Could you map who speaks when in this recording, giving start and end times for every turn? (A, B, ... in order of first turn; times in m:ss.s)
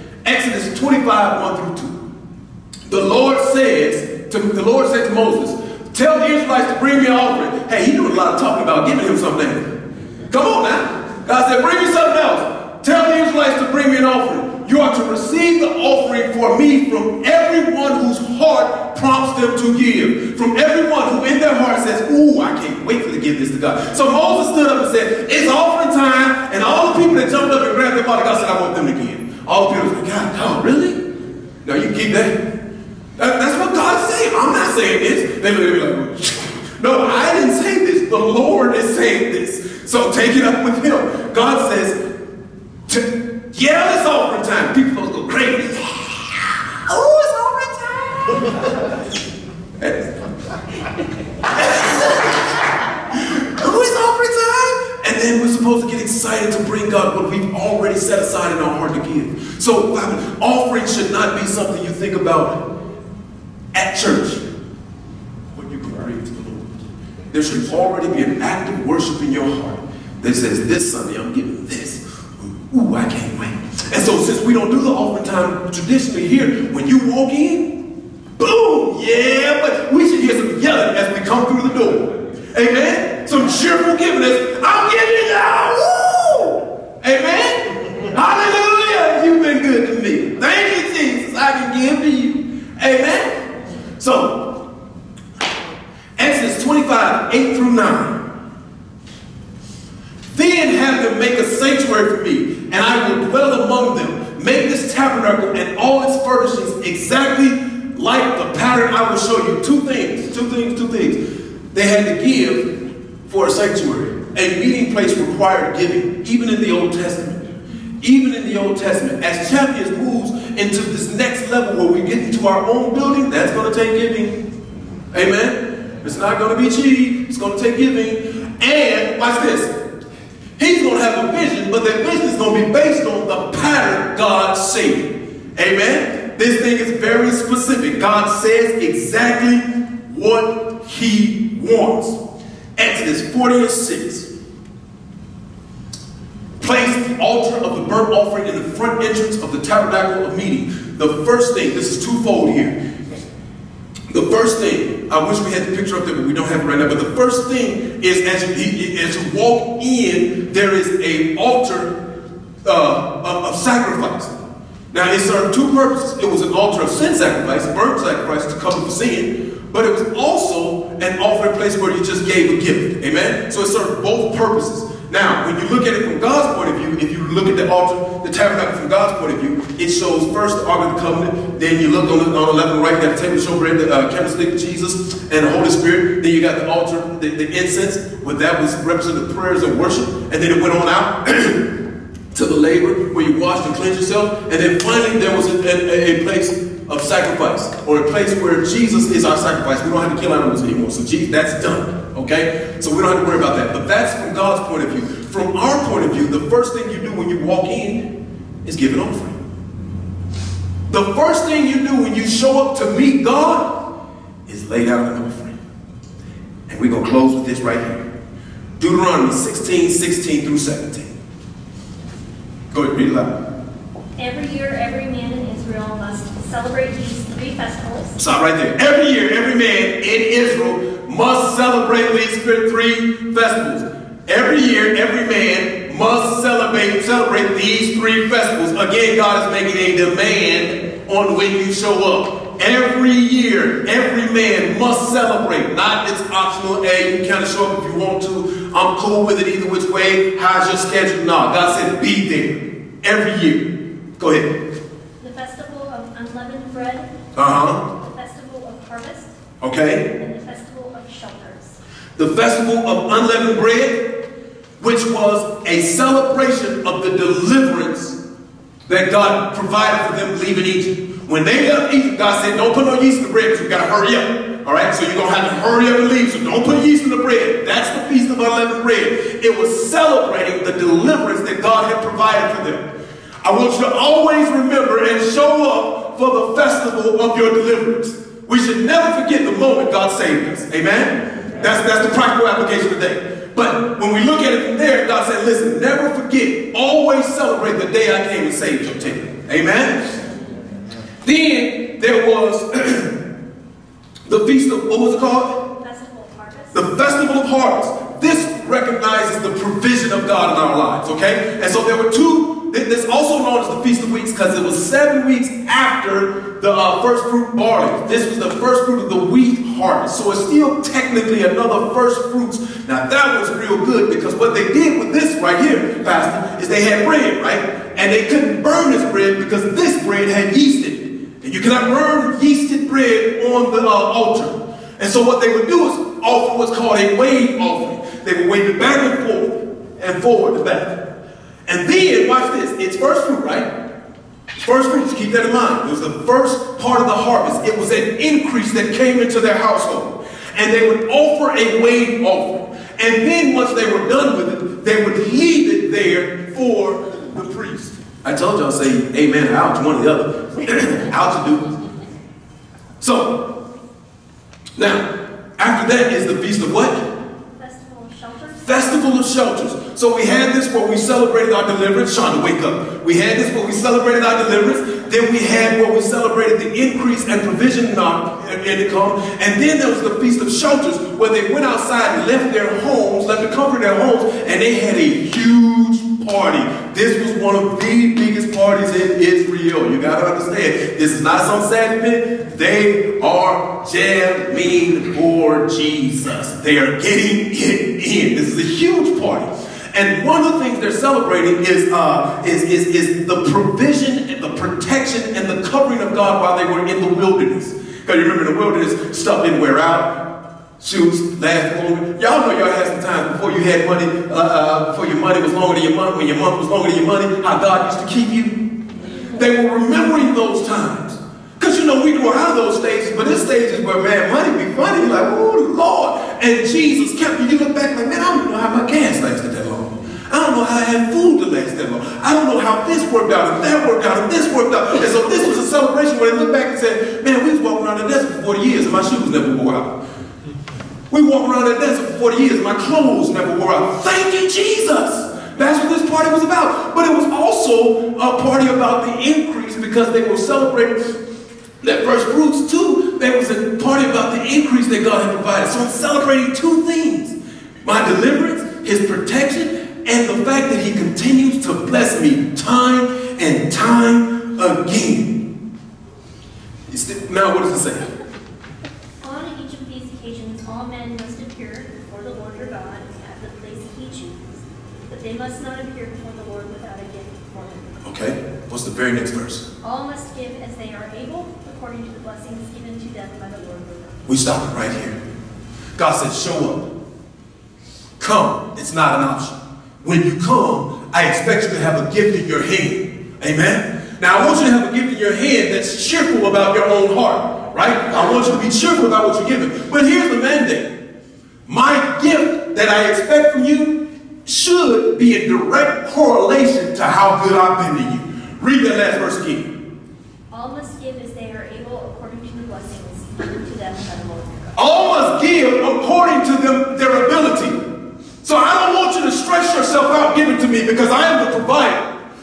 0:00.2-0:02.0 A
0:02.9-0:09.7 A
0:10.3-0:31.0 A
0:31.6-0:32.4 A
0:33.2-0:42.0 A
0:42.9-0:48.7 A
0:49.8-0:50.1 A
0:51.5-0:52.4 A
0:53.1-1:02.6 A
1:03.7-1:04.4 A
1:05.5-1:06.8 A
1:07.3-1:17.8 A
1:18.4-1:33.3 A
1:34.0-1:34.5 A
1:36.2-1:38.2 A
1:40.3-1:51.2 A
1:51.7-1:57.4 A
1:58.0-2:04.4 A
2:05.1-2:09.7 A
2:10.6-2:22.2 A
2:22.8-2:24.3 A
2:26.6-2:32.7 A
2:34.1-2:41.9 A
2:42.6-2:44.3 A
2:44.9-3:11.6 A
3:12.3-3:28.1 A
3:28.6-3:29.4 A
3:30.9-3:33.8 A
3:34.5-3:35.6 A
3:36.7-3:38.0 A
3:38.8-3:41.1 A
3:42.7-3:43.4 A
3:44.2-3:48.2 B
3:48.2-4:14.6 A
4:15.2-4:17.1 B
4:17.4-4:17.8 A
4:17.9-4:19.3 B
4:19.6-4:20.0 A
4:20.2-4:21.8 B
4:22.2-4:24.1 A
4:24.8-4:28.2 A
4:28.9-4:42.9 A
4:43.4-5:00.1 A
5:01.2-5:03.1 A
5:04.2-5:05.6 A
5:05.6-5:06.8 B
5:06.7-5:41.0 A
5:41.7-5:43.7 A
5:44.6-6:01.7 A
6:03.0-6:03.4 A
6:04.8-6:05.0 A
6:05.6-6:07.0 A
6:07.6-6:09.0 B
6:08.6-6:50.2 A
6:50.8-6:58.6 A
6:59.2-7:20.0 A
7:21.1-7:31.1 A
7:31.8-7:45.4 A
7:46.9-7:48.1 A
7:49.2-7:58.0 B
7:58.0-7:59.6 A
7:59.8-8:04.2 B
8:04.3-8:05.2 A
8:06.0-8:06.9 A
8:08.2-8:20.9 A
8:21.6-8:29.7 A
8:30.5-8:34.8 B
8:34.7-8:37.8 A
8:38.4-8:42.1 A